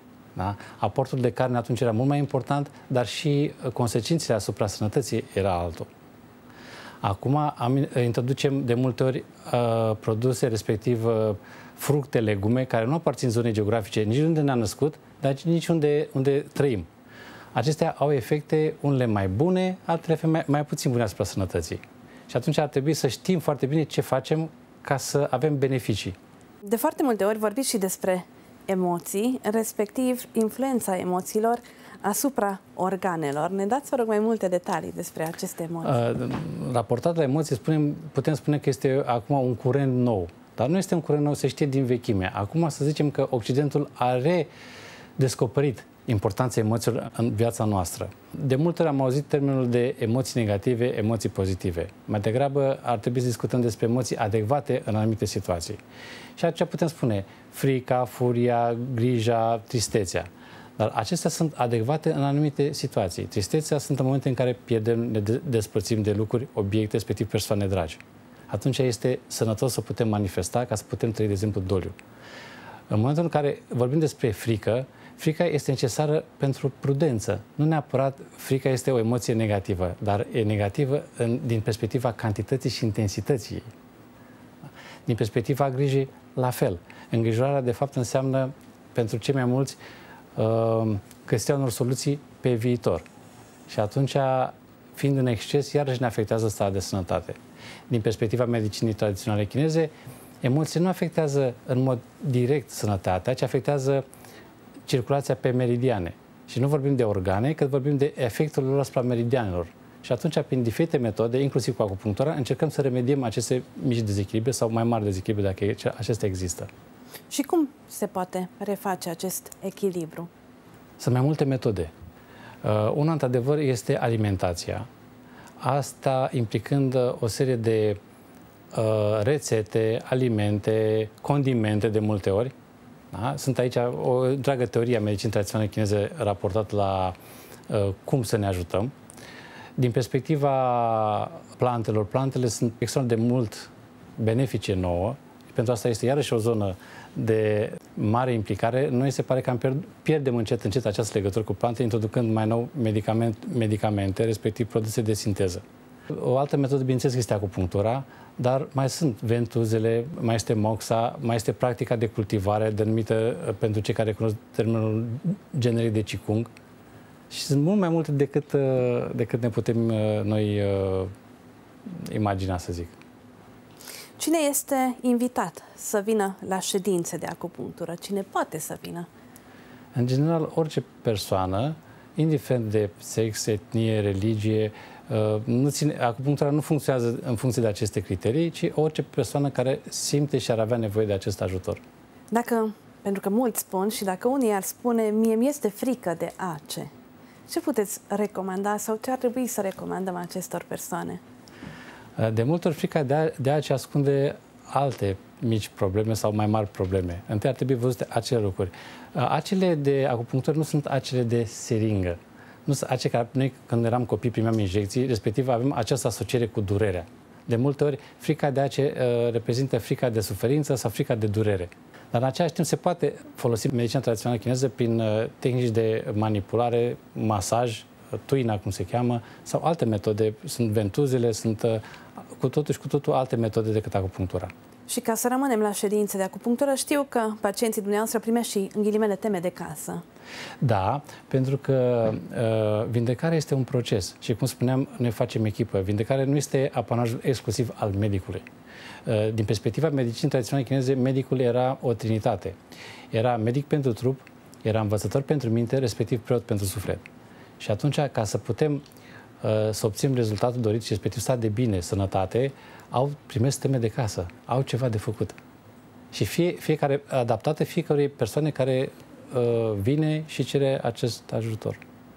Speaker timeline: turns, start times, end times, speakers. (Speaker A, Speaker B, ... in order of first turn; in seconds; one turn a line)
Speaker A: 0.3-5.9
Speaker A: 7.0-16.9
Speaker A: 17.5-26.1
Speaker B: 26.6-36.0
Speaker A: 35.8-44.5
Speaker A: 45.2-55.8
Speaker A: 56.4-72.0
Speaker A: 72.9-83.7
Speaker A: 85.0-89.8
Speaker A: 90.3-93.0
Speaker A: 93.7-97.4
Speaker A: 97.9-104.0
Speaker A: 104.9-116.7
Speaker B: 117.3-120.3
Speaker A: 121.0-121.9
Speaker A: 122.6-124.9
Speaker A: 125.6-128.0
Speaker A: 128.7-132.5
Speaker A: 133.1-137.2
Speaker A: 137.7-138.9
Speaker A: 139.8-166.5
Speaker A: 167.3-171.1
Speaker A: 171.9-172.9
Speaker B: 174.2-179.1
Speaker A: 179.9-191.8
Speaker B: 192.3-196.9
Speaker B: 197.5-201.2
Speaker A: 202.2-231.8
Speaker A: 232.3-234.5
Speaker B: 234.9-240.0
Speaker A: 240.6-248.4
Speaker A: 249.1-252.6
Speaker A: 253.1-257.0
Speaker A: 257.6-258.8
Speaker A: 259.4-265.4
Speaker A: 266.1-271.8